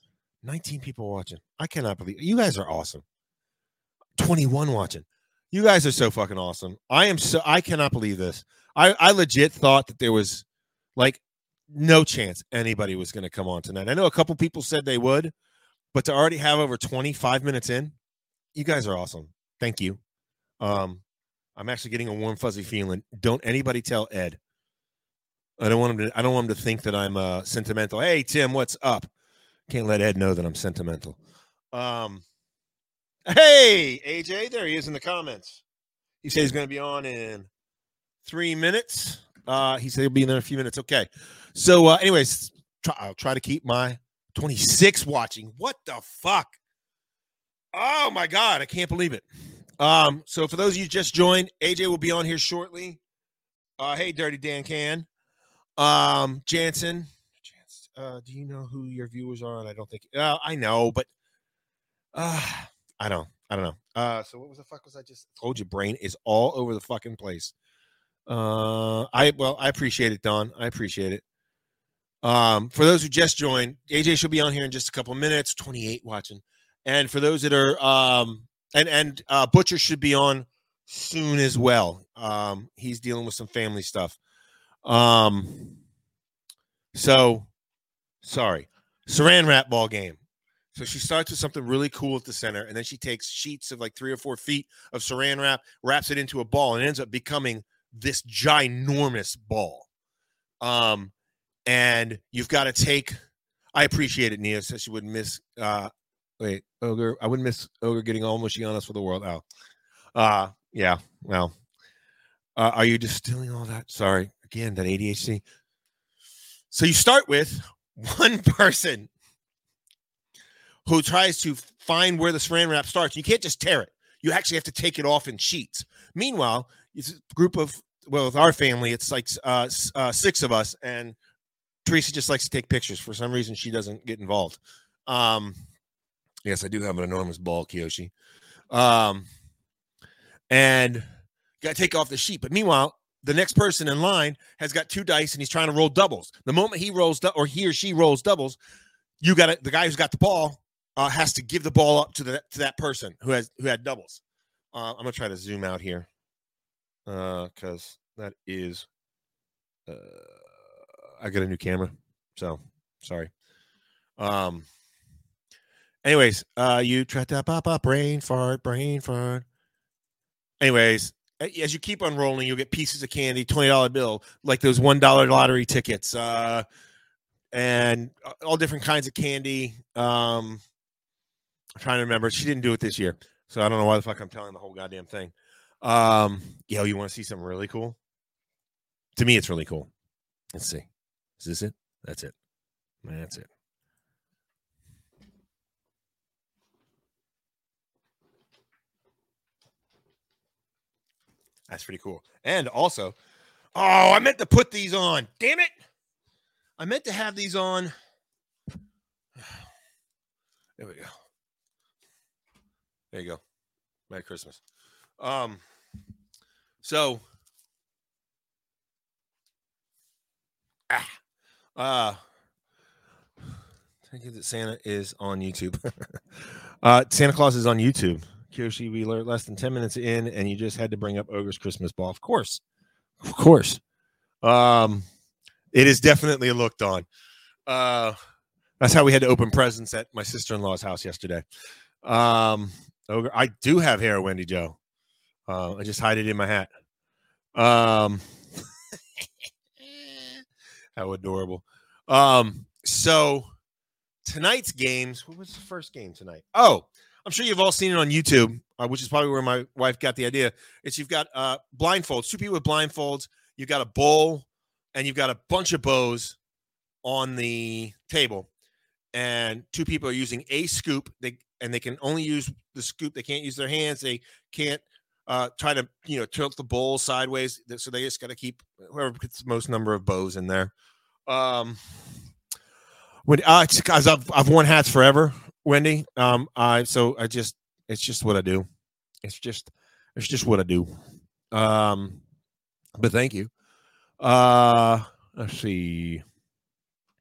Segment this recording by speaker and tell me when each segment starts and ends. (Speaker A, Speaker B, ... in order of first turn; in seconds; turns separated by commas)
Speaker A: 0.4-3.0, Speaker A: 4.2-10.4, Speaker A: 11.0-15.3, Speaker A: 15.9-17.9, Speaker A: 18.6-20.0, Speaker A: 20.6-21.0, Speaker A: 21.6-24.4, Speaker A: 25.6-29.1, Speaker A: 29.7-31.2, Speaker A: 31.7-32.2, Speaker A: 33.3-35.6, Speaker A: 36.2-37.5, Speaker A: 38.2-46.5, Speaker A: 47.7-49.2, Speaker A: 49.8-53.0, Speaker A: 53.8-55.1, Speaker A: 55.8-61.1, Speaker A: 62.1-67.5, Speaker A: 68.3-71.2, Speaker A: 72.2-84.2, Speaker A: 84.8-85.8, Speaker A: 86.9-87.5, Speaker A: 88.2-90.2, Speaker A: 90.8-99.9, Speaker A: 100.6-101.1, Speaker A: 101.7-103.2, Speaker A: 103.8-109.4, Speaker A: 110.2-111.5, Speaker A: 112.6-115.4, Speaker A: 116.7-119.1, Speaker A: 120.9-131.2, Speaker A: 131.8-135.6, Speaker A: 136.4-138.1, Speaker A: 138.7-139.3, Speaker A: 140.5-141.1, Speaker A: 141.6-148.6, Speaker A: 149.2-154.2, Speaker A: 154.7-156.1, Speaker A: 157.1-158.9, Speaker A: 159.9-160.4, Speaker A: 161.2-163.3, Speaker A: 164.2-164.7, Speaker A: 166.0-169.4, Speaker A: 170.6-176.7, Speaker A: 177.5-180.6, Speaker A: 181.8-188.0, Speaker A: 189.2-189.9, Speaker A: 190.5-190.9, Speaker A: 191.4-192.3, Speaker A: 193.0-193.5, Speaker A: 201.7-203.2, Speaker A: 203.8-205.7, Speaker A: 206.8-207.9, Speaker A: 210.8-211.1, Speaker A: 213.1-213.4, Speaker A: 214.1-214.6, Speaker A: 215.2-215.6, Speaker A: 216.8-217.2, Speaker A: 221.8-222.2, Speaker A: 224.1-226.2, Speaker A: 226.8-232.6, Speaker A: 233.2-233.8, Speaker A: 234.4-235.1, Speaker A: 235.7-237.1, Speaker A: 237.7-238.2, Speaker A: 238.8-241.4, Speaker A: 242.0-244.8, Speaker A: 245.5-246.7, Speaker A: 247.6-248.2, Speaker A: 251.0-253.5, Speaker A: 254.2-266.4, Speaker A: 267.0-268.5, Speaker A: 269.1-280.7, Speaker A: 281.3-281.8, Speaker A: 283.2-288.7, Speaker A: 289.2-290.9, Speaker A: 291.5-292.2, Speaker A: 293.0-293.5, Speaker A: 294.2-296.2